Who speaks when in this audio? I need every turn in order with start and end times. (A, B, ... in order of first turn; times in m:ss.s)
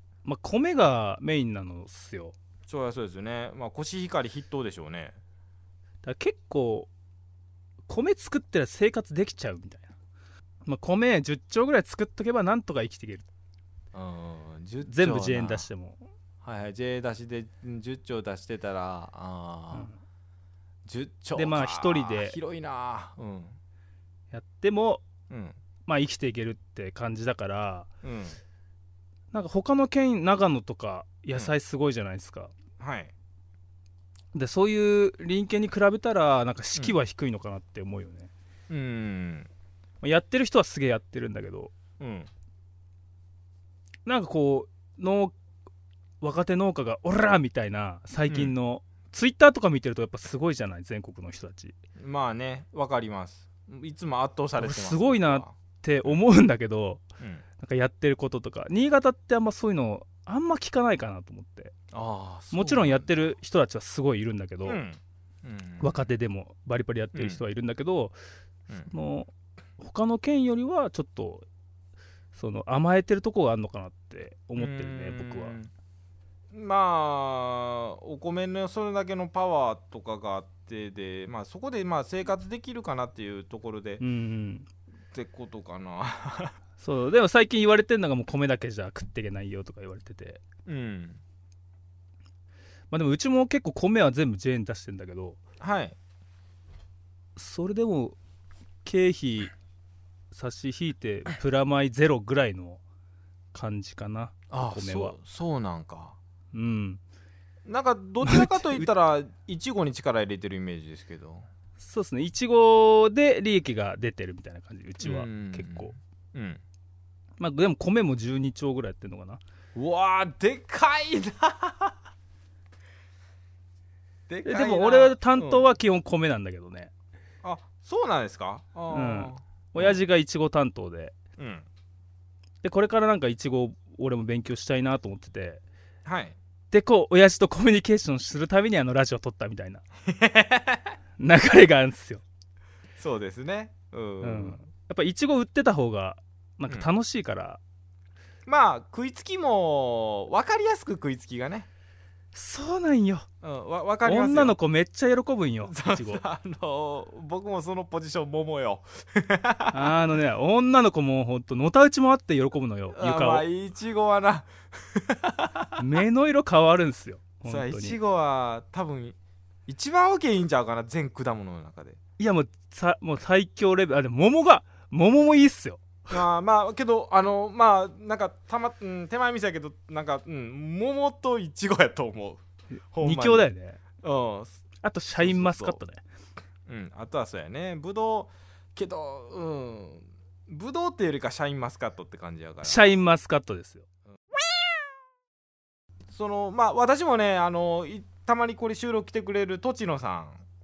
0:00.2-0:02.3 A
0:02.7-0:05.2 B
0:06.0-0:06.9 A
0:07.9-0:09.9 A
0:10.6-0:13.2 A
0:13.9-0:15.7 B
0:14.9-0:16.0 A
0:16.4-0:19.9 B
0:20.8-0:23.6 B
0:21.3-0:22.4 A
0:24.3-0:25.0 A
0:25.3-0:25.6 B
0:25.8-0:27.9 A
0:28.0-0:28.4 B
0:29.3-0:32.5 A
0:32.8-0:33.1 B
0:34.3-0:38.3 A
0:38.7-0:39.5 B
0:40.0-0:41.7 A
0:42.0-0:42.3 B
0:44.0-0:45.3 A
0:46.2-0:51.8 A
0:48.3-0:48.5 B
0:52.0-0:56.2 B
0:54.6-0:57.0 A
0:57.6-1:01.7 A
1:01.9-1:03.3 B
1:02.5-1:04.8 A
1:04.6-1:06.0 B
1:05.8-1:08.1 A
1:07.1-1:07.4 B
1:08.9-1:11.4 A
1:12.3-1:15.6 A
1:14.6-1:15.7 B
1:16.5-1:24.0 B
1:24.0-1:24.7 A
1:25.1-1:26.6 B
1:26.8-1:30.4 A
1:30.6-1:31.2 B
1:32.9-1:35.4 A
1:35.6-1:36.0 B
1:37.4-1:38.2 A
1:38.8-1:39.5 A
1:40.3-1:42.8 A
1:43.5-1:45.2 A
1:44.5-1:46.2 B
1:46.5-1:47.0 A
1:47.6-1:51.4 B
1:48.2-1:48.9 A
1:51.8-1:55.9 A
1:55.0-1:56.6 B
1:57.4-1:59.4 A
1:59.7-2:01.9 B
2:04.3-2:05.6 B
2:04.4-2:06.9 A
2:07.4-2:10.0 B
2:08.9-2:11.1 A
2:11.4-2:11.6 B
2:12.6-2:15.6 A
2:16.0-2:16.4 B
2:16.7-2:19.8 A
2:20.1-2:20.9 B
2:21.2-2:22.2 A
2:23.0-2:24.6 B
2:24.2-2:27.6 A
2:28.4-2:31.7 B
2:32.3-2:33.3 A
2:33.4-2:34.6 B
2:34.0-2:36.2 A
2:35.7-2:40.0 B
2:39.7-2:43.4 A
2:42.9-2:45.8 B
2:45.8-2:48.0 A
2:47.4-2:52.0 B
2:52.2-2:56.0 A
2:56.1-3:02.4 B
3:02.9-3:03.5 B
3:03.0-3:03.8 A
3:04.0-3:04.6 B
3:04.8-3:06.0 A
3:05.2-3:05.8 B
3:06.7-3:12.9 B
3:12.6-3:13.8 A
3:16.1-3:20.4 B